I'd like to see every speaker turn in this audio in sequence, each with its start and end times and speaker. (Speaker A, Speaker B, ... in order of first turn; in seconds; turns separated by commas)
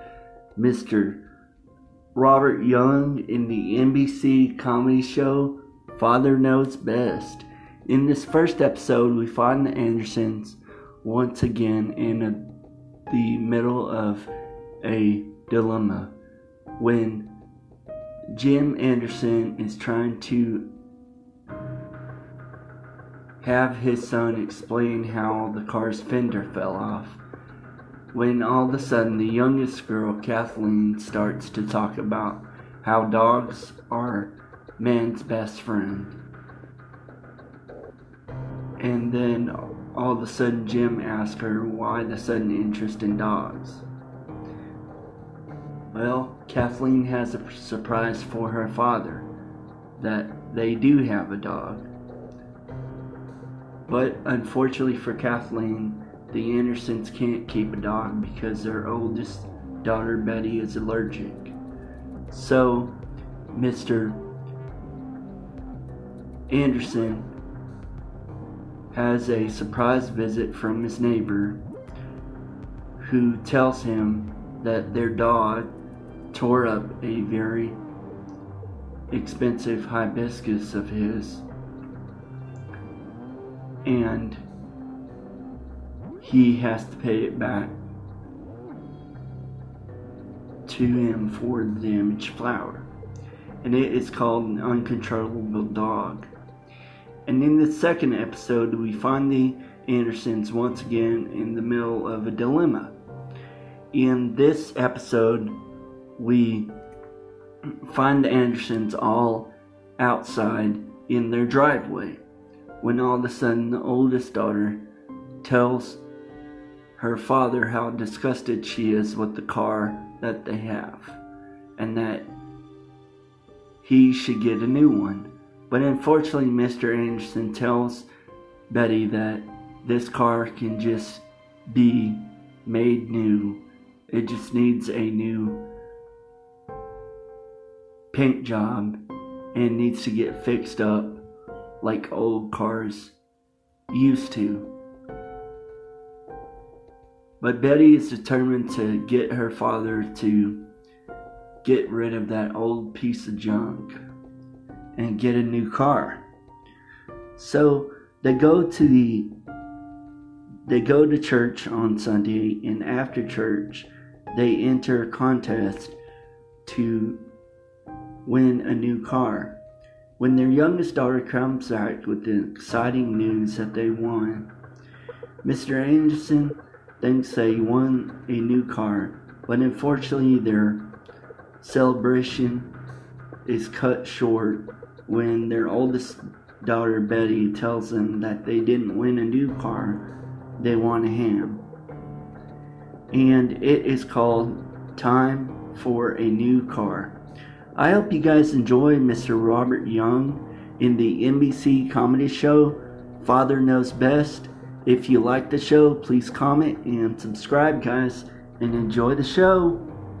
Speaker A: 0.6-1.3, Speaker A: 2.1-12.5, Speaker A: 13.1-14.3, Speaker A: 14.8-16.1, Speaker A: 16.8-17.4, Speaker A: 18.3-20.7, Speaker A: 23.4-27.2, Speaker A: 28.1-36.2, Speaker A: 38.8-43.8, Speaker A: 45.9-49.3, Speaker A: 50.0-51.9, Speaker A: 53.9-61.5, Speaker A: 62.3-63.0, Speaker A: 63.5-64.3, Speaker A: 66.5-67.3, Speaker A: 68.9-71.6, Speaker A: 73.0-75.7, Speaker A: 76.3-77.8, Speaker A: 79.1-81.5, Speaker A: 83.8-84.4, Speaker A: 86.2-87.8, Speaker A: 90.7-92.9, Speaker A: 93.6-96.3, Speaker A: 97.2-103.0, Speaker A: 103.9-105.6, Speaker A: 106.2-106.7, Speaker A: 107.8-112.2, Speaker A: 112.8-114.9, Speaker A: 115.4-116.0, Speaker A: 117.0-121.2, Speaker A: 121.8-122.3, Speaker A: 123.8-128.1, Speaker A: 128.7-135.7, Speaker A: 138.1-139.0, Speaker A: 139.5-141.2, Speaker A: 141.8-143.1, Speaker A: 143.9-144.7, Speaker A: 147.4-150.7, Speaker A: 151.6-154.0, Speaker A: 154.9-156.2, Speaker A: 157.4-159.3, Speaker A: 160.7-165.9, Speaker A: 166.7-167.2, Speaker A: 168.2-169.6, Speaker A: 170.2-174.5, Speaker A: 175.4-180.9, Speaker A: 181.6-182.7, Speaker A: 183.4-191.7, Speaker A: 193.1-197.2, Speaker A: 197.7-209.8